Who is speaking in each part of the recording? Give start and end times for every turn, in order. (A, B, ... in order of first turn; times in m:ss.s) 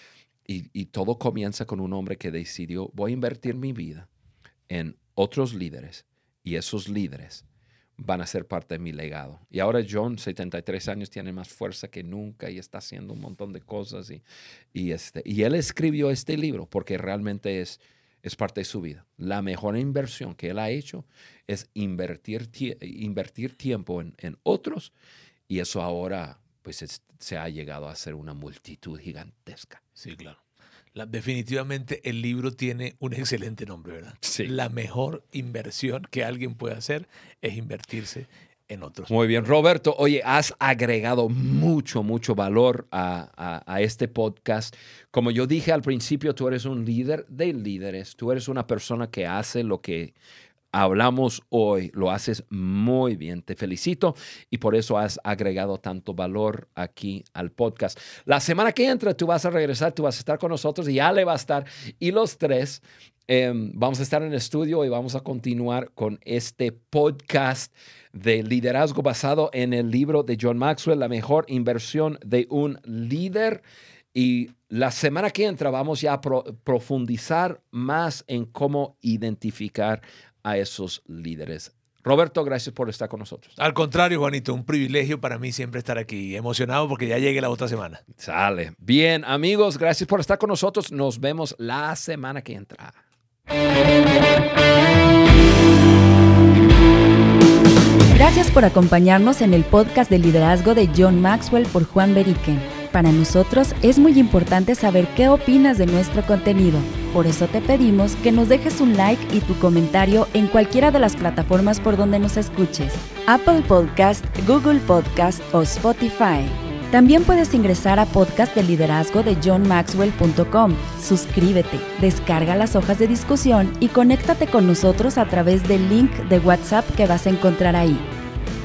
0:00.5-0:04.1 A
0:04.7-0:07.4 A
0:08.0-0:14.2 A
0:14.7-0:24.9 A
0:25.5-0:29.8 A
0:30.0-0:30.4 B
0:30.9-0:39.1 B
0:34.2-0:34.5 A
0:39.1-0:50.1 A
0:50.7-1:13.6 A
1:14.1-1:23.6 A
1:23.6-1:28.0 B
1:28.2-1:33.0 A
1:38.1-2:08.0 C